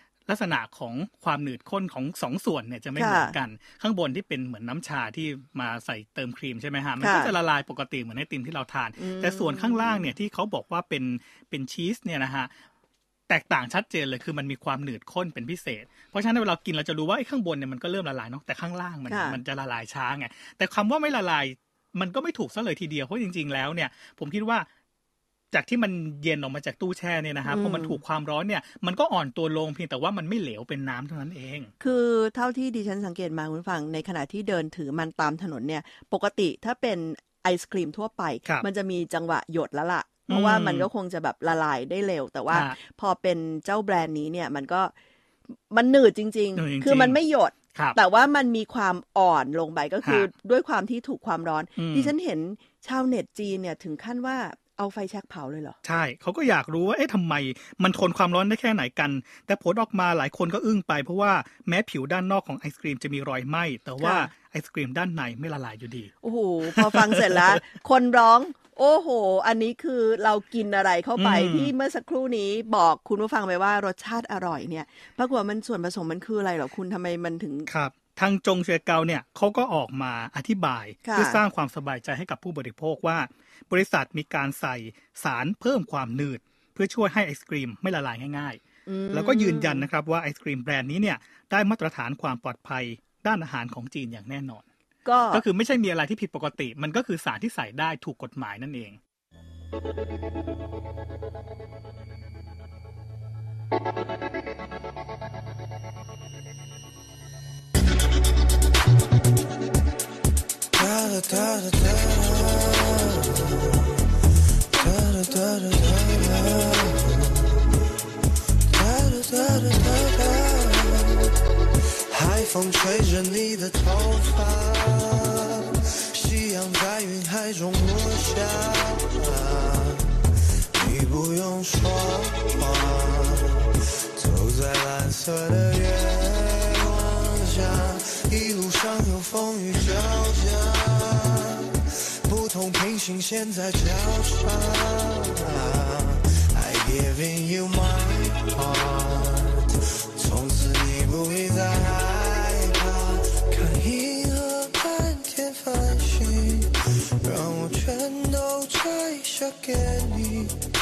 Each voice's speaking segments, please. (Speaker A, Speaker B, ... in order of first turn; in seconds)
Speaker A: 0.3-12.5, 13.3-24.7, 25.5-31.7, 40.3-40.9, 46.6-47.2, 50.0-50.3, 51.8-52.1, 55.8-66.1, 66.8-67.6, 71.2-71.7, 77.7-88.6, 89.1-94.7, 95.3-99.0
Speaker B: 3.0-3.4, 7.0-7.3, 9.0-10.0, 19.1-19.4, 27.5-28.0, 31.8-44.9, 45.7-55.8, 64.0-64.3, 66.2-77.7, 81.0-81.4, 88.9-89.8, 95.0-95.4
Speaker C: 110.7-114.0, 114.7-117.7, 118.7-121.3, 122.1-160.7